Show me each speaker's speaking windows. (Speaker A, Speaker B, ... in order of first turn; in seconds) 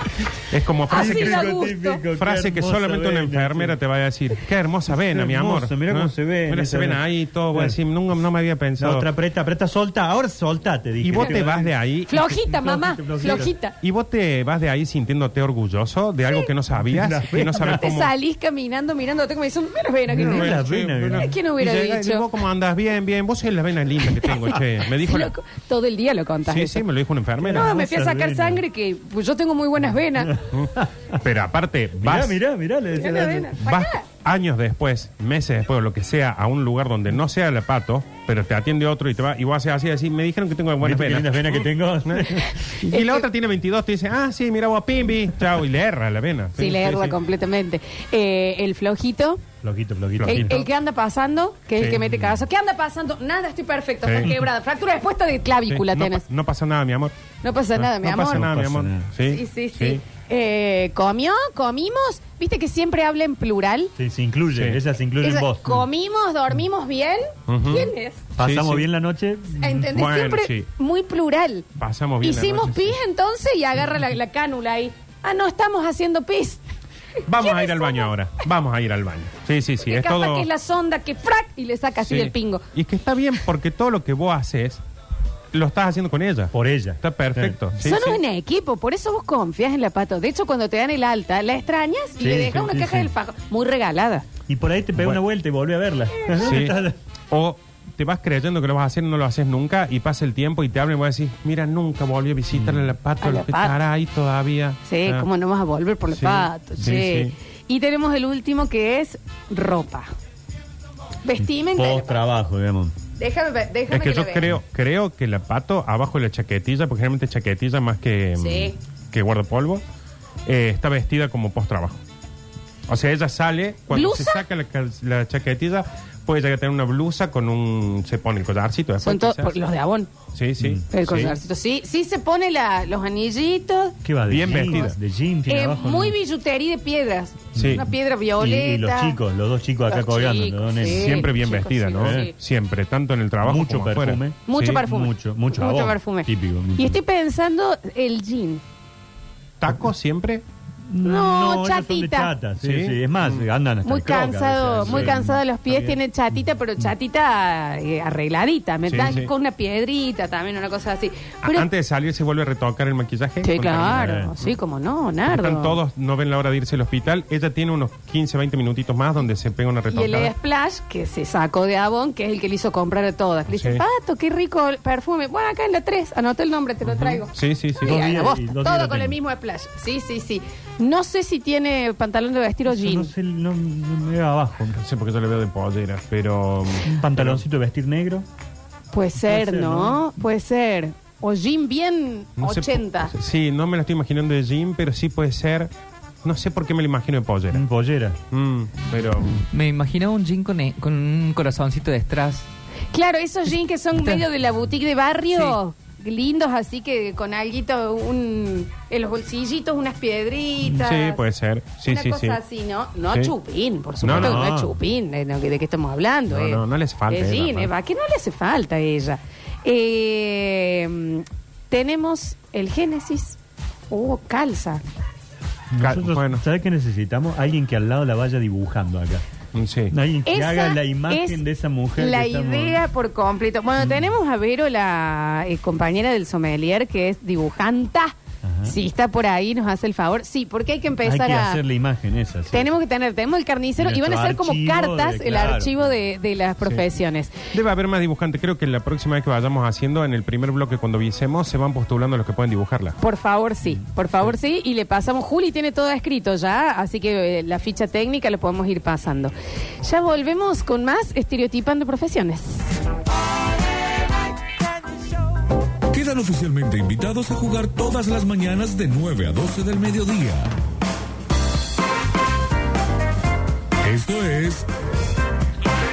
Speaker A: 0.4-9.1, 11.0-12.5, 13.2-18.1, 20.1-25.3, 26.5-27.7, 30.5-32.4, 33.6-47.2, 50.2-50.6, 51.8-52.3, 54.0-54.3, 55.7-57.1, 57.8-60.0, 64.5-64.8, 67.5-68.8, 69.9-70.7, 71.8-73.0, 77.2-80.5, 82.0-84.8, 85.5-88.2, 96.4-96.8, 97.3-105.3, 106.1-107.3, 113.9-119.8, 120.5-122.0, 122.9-129.6, 130.3-131.4, 134.3-135.0, 137.6-137.8, 140.8-144.8, 149.6-150.4, 152.6-153.4, 154.8-155.2, 158.9-159.3, 161.4-164.5, 165.2-170.3, 173.5-173.8, 176.8-178.0, 184.7-187.4, 192.4-195.7, 196.2-197.7, 198.3-199.3, 210.6-212.4, 214.0-214.5, 216.3-217.7, 225.8-226.4, 229.5-229.9, 247.5-253.0
Speaker B: 0.9-3.8, 4.9-7.8, 8.8-11.7, 12.5-13.5, 16.8-17.8, 20.1-21.3, 27.4-28.6, 30.2-31.1, 32.0-33.6, 40.8-42.4, 49.6-50.6, 58.0-59.1, 64.0-65.8, 68.4-69.9, 86.5-87.6, 92.2-93.1, 94.5-97.0, 102.5-102.9, 111.7-112.9, 130.6-130.8, 134.0-136.2, 137.5-137.9, 138.4-141.2, 142.0-142.3, 143.4-147.0, 150.9-156.0, 163.9-164.3, 177.8-179.2, 182.7-184.8, 186.8-188.2, 189.2-190.0, 197.5-198.2, 214.0-214.7, 225.7-229.2, 229.9-232.8, 238.4-238.8, 241.0-242.7, 243.8-245.9
Speaker C: 0.9-2.0, 12.1-13.7, 17.5-22.3, 24.2-26.8, 27.5-30.4, 32.9-34.0, 42.2-43.2, 46.6-49.4, 50.2-56.2, 57.4-58.5, 59.2-63.9, 65.2-68.2, 69.6-71.7, 72.2-76.6, 77.3-78.1, 79.8-82.6, 87.8-94.3, 103.2-103.7, 104.8-110.1, 111.2-112.2, 113.2-114.4, 118.4-118.8, 123.9-124.4, 129.0-130.1, 130.9-134.0, 135.5-139.2, 139.9-142.3, 144.5-148.6, 151.0-152.3, 153.8-161.7, 163.4-165.8, 169.9-183.1, 188.9-193.1, 202.9-211.2, 211.9-223.4, 223.9-224.8, 230.2-231.4, 231.9-241.6, 242.5-247.4, 253.0-262.8
Speaker D: 199.3-202.4
Speaker E: 265.9-270.6, 273.8-274.7